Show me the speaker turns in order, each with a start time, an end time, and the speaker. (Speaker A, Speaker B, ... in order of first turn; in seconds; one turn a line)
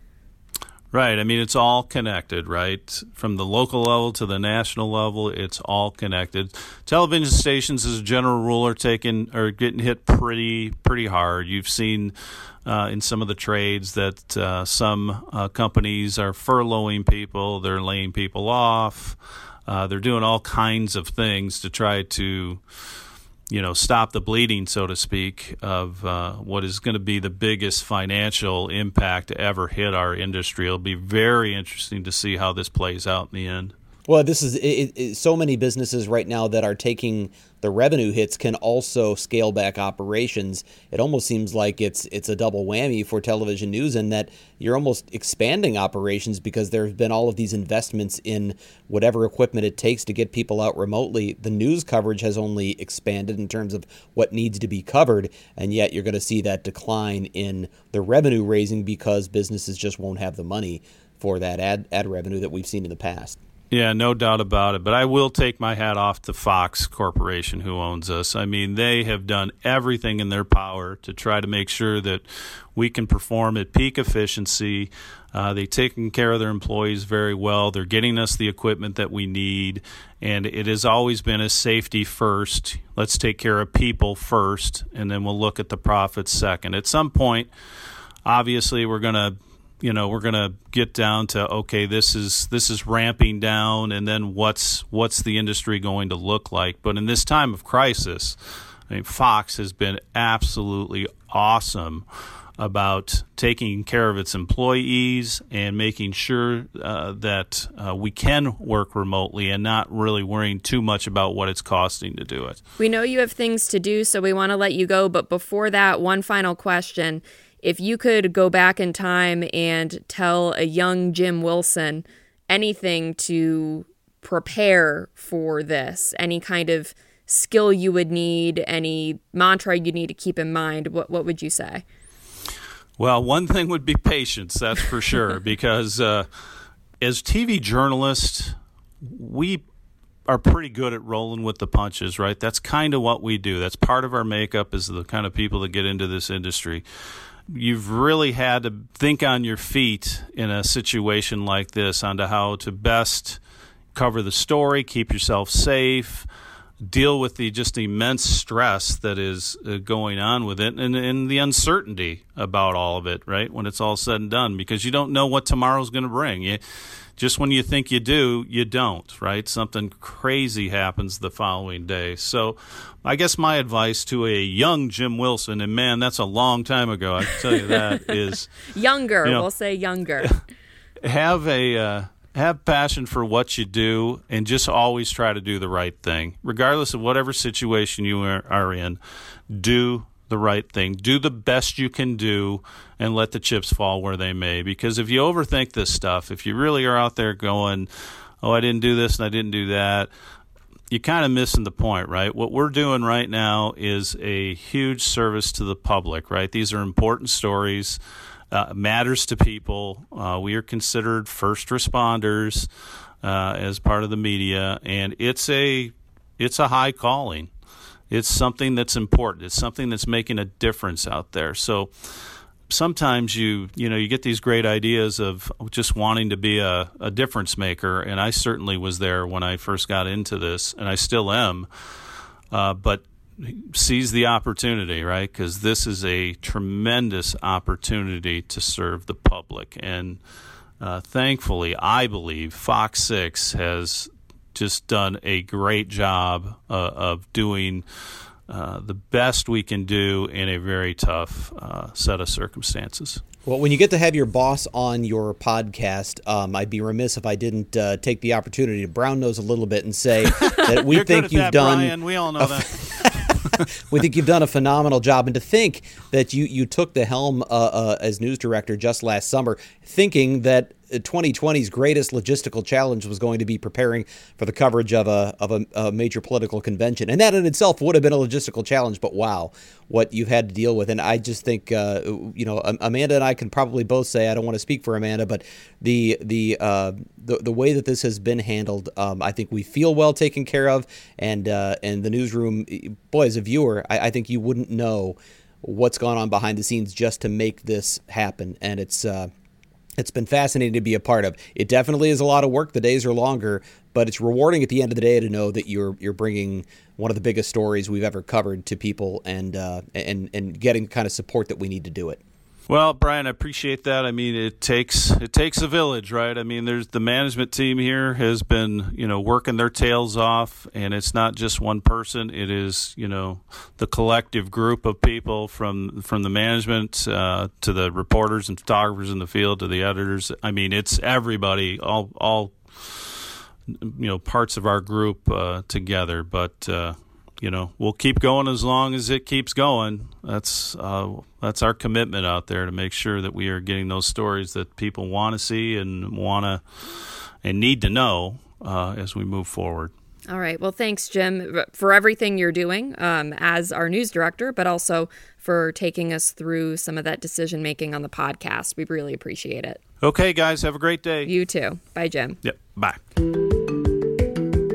Speaker A: 0.9-12.1
Speaker A: 12.6-22.6
Speaker A: 23.5-33.7
Speaker B: 34.1-63.4
Speaker A: 63.7-72.2
Speaker A: 72.7-87.5
Speaker A: 88.2-98.4
Speaker A: 98.9-102.0
Speaker A: 102.6-112.6
Speaker C: 112.8-131.8
Speaker A: 133.0-136.3
Speaker A: 137.0-139.6
Speaker A: 140.3-146.8
Speaker A: 147.5-153.4
Speaker A: 153.9-156.3
Speaker A: 156.8-166.6
Speaker A: 167.2-178.5
Speaker C: 177.3-178.1
Speaker C: 178.7-180.3
Speaker A: 181.0-189.0
Speaker A: 189.5-197.9
Speaker A: 198.4-200.1
Speaker A: 200.9-208.0
Speaker A: 208.5-212.7
Speaker A: 213.2-217.5
Speaker A: 218.1-221.9
Speaker A: 222.7-231.7
Speaker A: 232.5-240.2
Speaker A: 240.8-247.8
Speaker A: 248.5-253.2
Speaker B: 253.4-299.3
Speaker A: 260.3-263.7
Speaker B: 300.0-312.2
Speaker A: 312.7-333.2
Speaker A: 333.7-346.6
Speaker A: 347.4-349.9
Speaker C: 350.3-359.8
Speaker A: 360.0-361.3
Speaker C: 361.2-362.4
Speaker A: 362.4-363.0